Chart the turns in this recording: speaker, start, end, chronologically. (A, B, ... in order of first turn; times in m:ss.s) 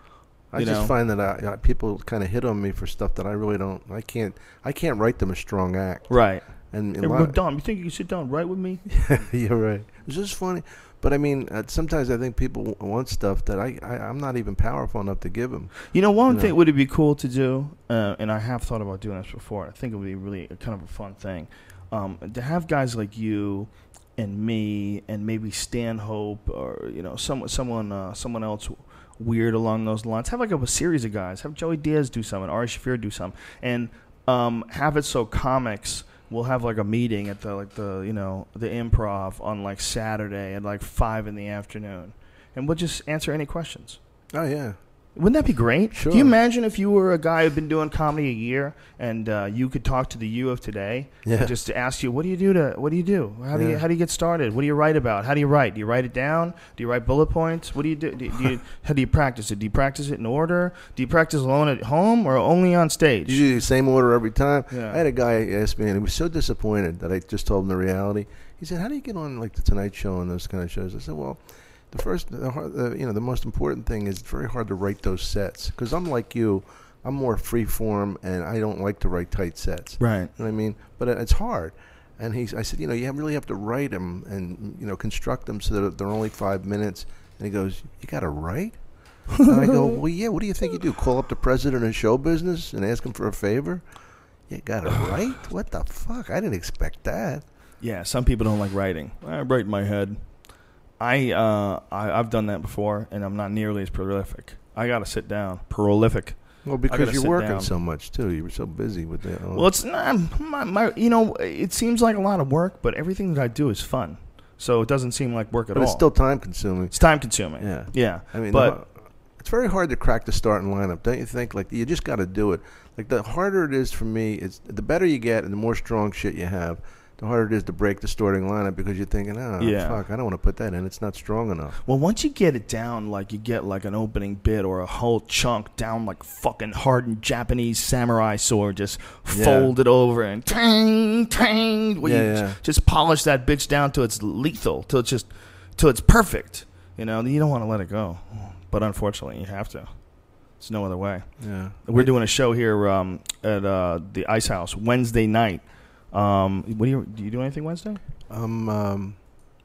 0:00.5-0:07.4 A
0:00.6-0:00.9 B
0:06.1-0:08.8 B
0:08.9-0:16.5 A
0:15.9-0:44.0 B
0:44.3-0:44.8 A
0:45.2-1:03.4 B
0:45.9-0:46.3 A
0:51.2-0:51.5 A
0:53.5-0:53.8 A
1:03.2-1:33.8 A
1:04.7-1:05.0 B
1:20.0-1:20.3 B
1:29.4-1:29.9 B
1:34.5-1:37.4 A
1:37.8-1:40.4 B
1:41.0-1:47.7 B
1:46.6-1:49.7 A
1:49.5-1:58.8 B
1:55.7-2:11.8 A
2:09.6-2:10.0 B
2:11.8-2:38.0 B
2:19.3-2:19.7 A
2:22.0-2:22.6 A
2:31.4-2:32.1 A
2:38.3-2:39.2 A